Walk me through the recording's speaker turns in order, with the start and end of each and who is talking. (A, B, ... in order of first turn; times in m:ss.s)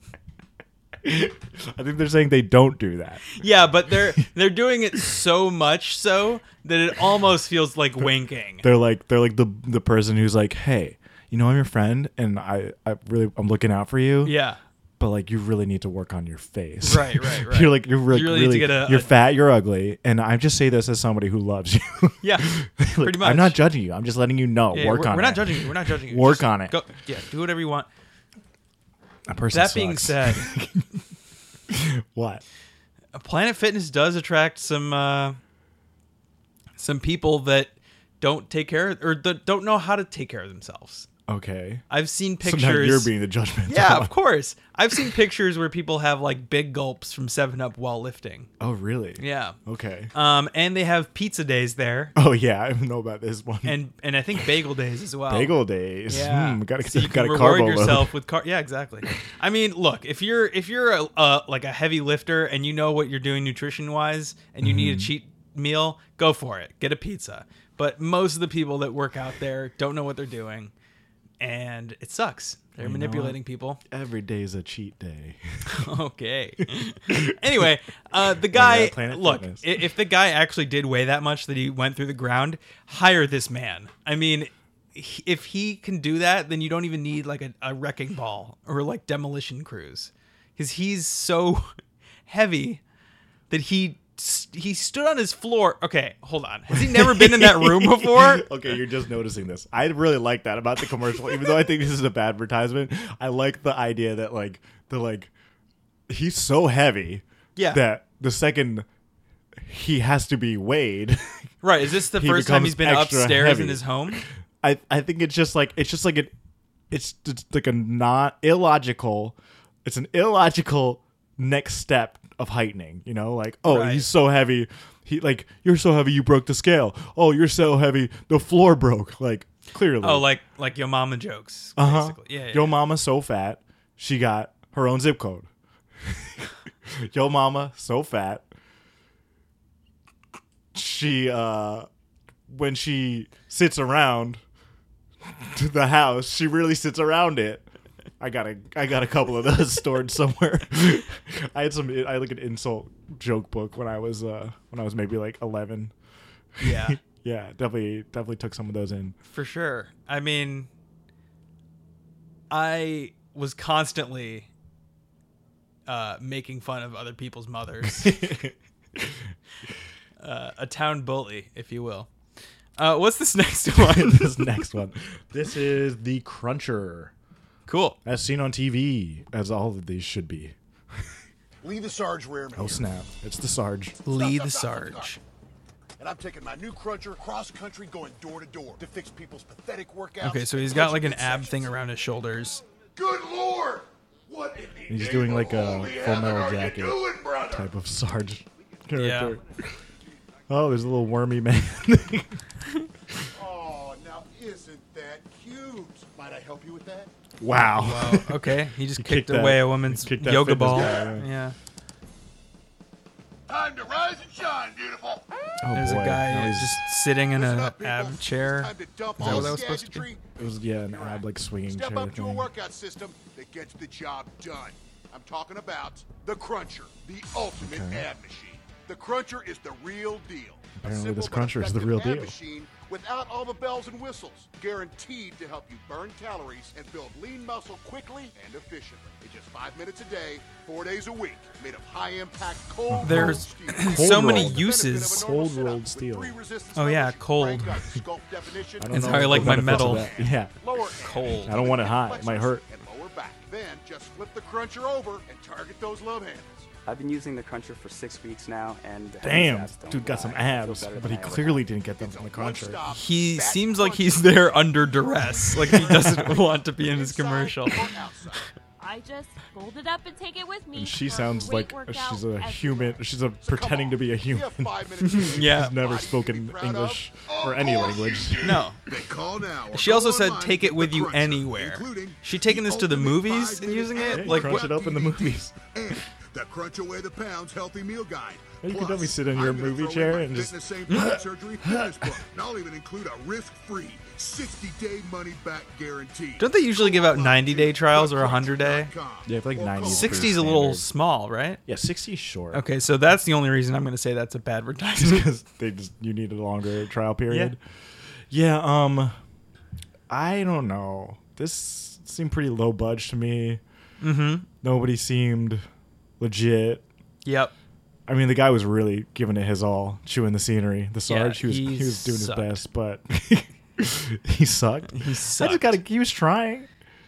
0:01.0-0:03.4 A
0:03.3-0:08.6 B
0:08.6-0:14.3 A
0:14.2-0:14.6 B
0:15.0-0:26.8 A
0:16.8-0:19.2 B
0:22.2-0:23.6 B
0:24.7-0:27.9 B
0:29.3-0:30.9 A
0:29.5-0:30.6 B
0:31.7-0:32.4 A
0:33.1-0:35.4 B
0:36.8-0:41.1 B
0:41.3-0:41.8 A
0:41.9-0:43.1 B
0:42.4-0:44.1 A
0:43.6-0:48.5 B
0:48.6-0:50.1 A
0:49.2-0:49.6 B
0:50.1-0:52.1 B
0:52.1-0:53.8 A
0:53.6-1:10.7 B
0:55.3-0:58.1 A
1:04.6-1:05.1 A
1:11.4-1:13.8 B
1:12.8-1:15.9 A
1:15.6-1:31.7 B
1:17.1-1:17.7 A
1:18.4-1:19.7 A
1:32.3-1:32.8 B
1:33.5-1:38.5 B
1:36.7-1:45.3 A
1:46.1-1:48.8 A
1:47.6-1:47.8 B
1:49.6-1:51.5 A
1:51.6-1:54.2 B
1:52.1-1:56.3 A
1:56.9-2:10.3 A
2:03.6-2:04.1 B
2:10.0-2:12.7 B
2:11.8-2:15.5 A
2:16.0-2:18.5 A
2:20.7-2:21.9 A
2:22.5-2:24.4 A
2:25.2-2:27.7 A
2:28.2-2:35.9 A
2:36.6-2:39.2 A
2:36.6-2:37.0 B
2:39.3-2:40.7 B
2:42.5-2:44.5 B
2:45.8-2:48.2 B
2:47.9-2:49.1 A
2:50.2-2:52.1 B
2:52.8-2:54.6 B
2:53.7-2:57.1 A
2:57.7-2:58.0 B
2:58.0-3:00.5 A
3:01.6-3:02.9 C
3:02.6-3:04.0 A
3:04.0-3:05.2 C
3:04.0-3:05.2 B
3:06.0-3:11.8 C
3:10.2-3:12.6 B
3:13.0-3:17.7 C
3:14.9-3:19.4 A
3:18.9-3:19.4 B
3:20.5-3:22.4 A
3:23.3-3:27.1 C
3:27.4-3:31.3 A
3:27.7-3:31.5 B
3:30.7-3:31.2 C
3:33.5-3:35.2 C
3:35.6-3:36.8 A
3:35.7-3:40.0 B
3:37.3-4:16.7 C
3:39.2-3:39.6 A
3:40.4-3:42.5 A
3:47.6-3:48.1 A
3:50.8-3:52.3 A
4:02.9-4:06.3 A
4:03.0-4:05.2 B
4:06.7-4:07.8 B
4:08.8-4:10.5 A
4:08.9-4:10.1 B
4:11.0-4:11.6 B
4:11.4-4:12.6 A
4:16.9-4:21.6 D
4:19.2-4:22.8 A
4:21.9-4:28.5 C
4:22.9-4:27.8 B
4:25.7-4:26.3 A
4:28.8-4:33.0 E
4:30.7-4:38.6 A
4:33.4-5:00.4 C
4:35.0-4:35.8 B
4:38.4-4:38.8 B
4:39.7-4:44.7 B
4:44.0-4:45.5 A
4:48.6-4:52.2 A
4:50.9-4:51.2 B
4:56.4-4:58.9 B
4:59.2-5:00.8 A
4:59.8-5:01.6 B
5:01.6-5:02.6 A
5:02.5-5:05.2 B
5:05.0-5:07.6 A
5:07.3-5:07.5 B
5:08.3-5:09.1 A
5:10.1-5:13.6 A
5:14.0-5:14.5 B
5:14.6-5:15.6 A
5:16.2-5:16.8 A
5:17.2-5:17.5 B
5:18.1-5:26.7 A
5:21.1-5:22.6 B
5:24.9-5:25.8 B